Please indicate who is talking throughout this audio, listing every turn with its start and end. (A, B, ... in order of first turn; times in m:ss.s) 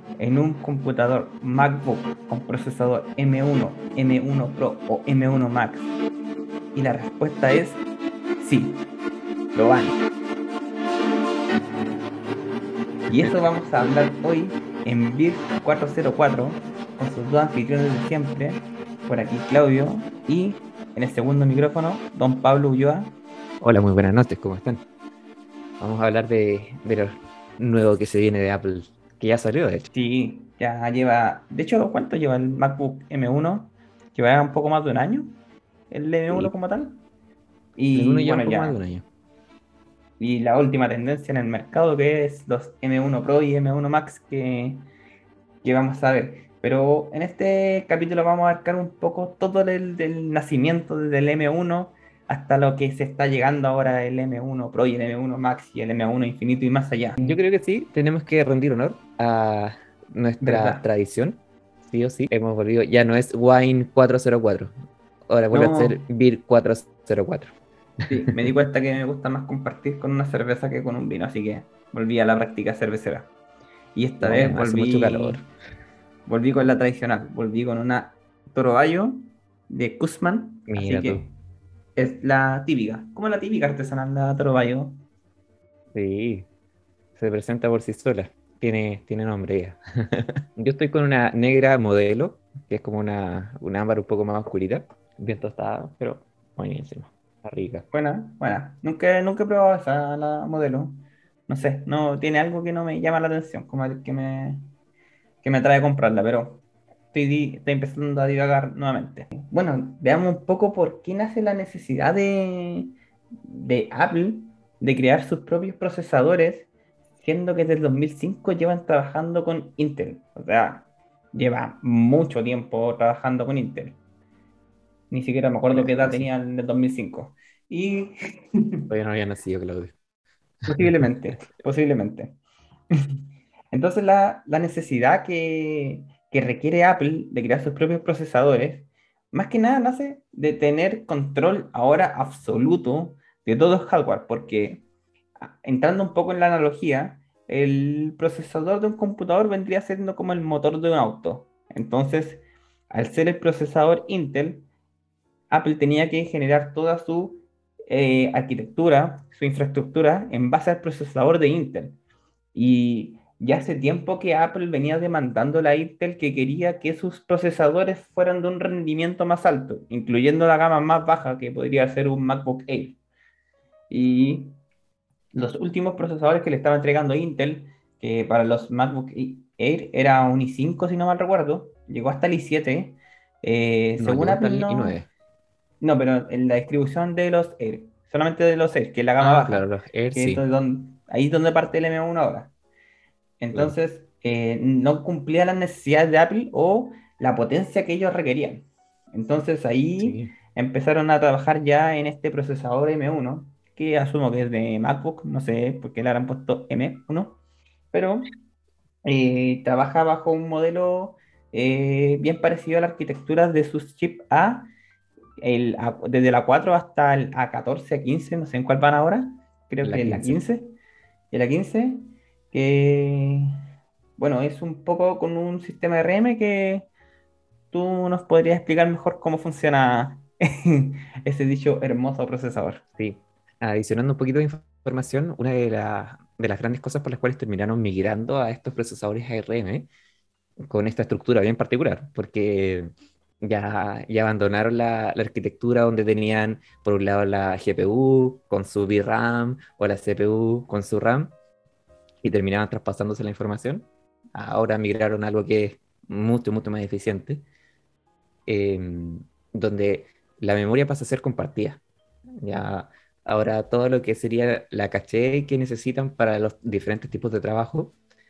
0:00.2-0:05.9 A
0:06.8-0:07.8 A
0:08.4-0:08.8 A
0:09.6-0:10.0 A
0:13.1-0:23.1 A
0:23.6-0:24.8 B
0:25.8-0:29.9 B
0:29.9-0:35.3 A
0:35.9-0:37.0 A
0:37.8-0:38.8 A
0:37.9-0:39.1 B
0:40.2-0:44.8 A
0:45.6-0:57.2 A
0:57.2-1:04.7 B
1:00.4-1:00.8 A
1:05.3-1:08.1 B
1:05.5-1:06.0 A
1:08.1-1:13.3 A
1:14.0-1:15.4 A
1:14.2-1:15.4 B
1:16.3-1:21.4 A
1:20.7-1:21.3 B
1:22.0-1:25.0 A
1:25.9-1:26.5 B
1:27.2-1:37.9 B
1:37.9-1:44.6 A
1:45.4-1:52.9 A
1:53.5-1:56.7 A
1:57.2-2:04.0 A
2:05.1-2:08.1 A
2:05.7-2:06.3 B
2:08.9-2:10.0 B
2:10.7-2:12.4 A
2:13.7-2:24.8 A
2:25.4-2:34.7 A
2:35.5-2:42.0 A
2:42.5-2:53.0 A
2:53.9-2:54.6 A
2:55.3-3:05.0 A
3:04.0-3:05.1 B
3:05.8-3:12.5 A
3:09.2-3:10.4 B
3:13.4-3:27.4 A
3:20.0-3:20.3 B
3:27.9-3:28.3 A
3:29.0-3:34.7 A
3:35.4-3:40.7 A
3:39.8-3:40.4 B
3:41.3-3:43.5 A
3:44.2-3:46.9 A
3:47.7-3:52.8 A
3:53.0-3:59.9 B
4:00.7-4:11.3 B
4:12.2-4:17.4 B
4:18.5-4:21.8 B
4:22.4-4:28.0 B